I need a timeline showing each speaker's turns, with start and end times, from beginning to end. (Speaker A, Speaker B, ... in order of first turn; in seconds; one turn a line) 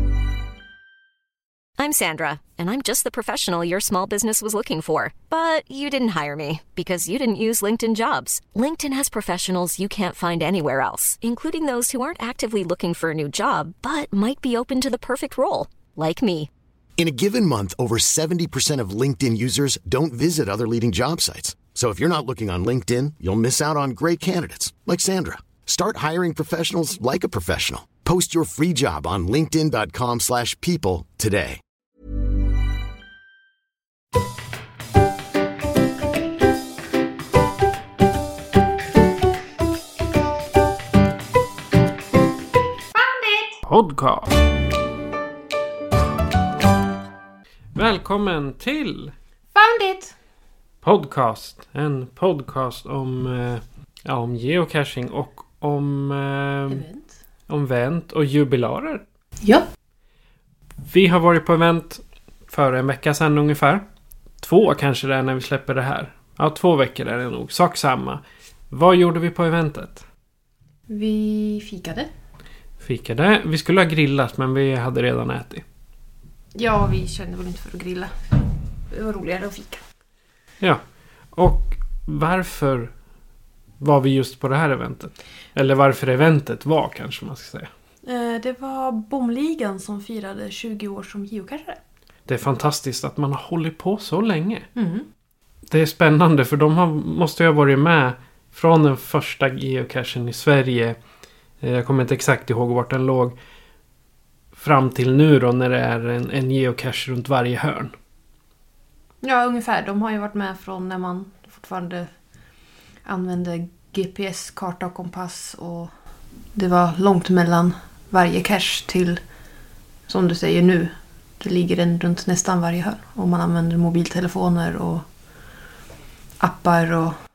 Speaker A: 1.8-16.5
Speaker B: 17.0-31.6
Speaker C: 43.0-43.5
Speaker D: 43.6-44.3
Speaker D: 47.8-49.1
Speaker C: 49.5-50.2
Speaker D: 50.8-56.9
Speaker C: 56.7-57.2
Speaker D: 57.5-59.0
Speaker C: 59.4-59.7
Speaker D: 60.9-70.1
Speaker C: 70.9-72.2
Speaker D: 72.8-75.6
Speaker C: 76.5-79.8
Speaker D: 80.6-83.2
Speaker D: 83.8-87.7
Speaker C: 88.0-91.8
Speaker D: 92.3-94.7
Speaker C: 94.8-95.1
Speaker D: 95.6-103.4
Speaker D: 104.5-107.9
Speaker C: 109.2-125.7
Speaker C: 126.4-127.2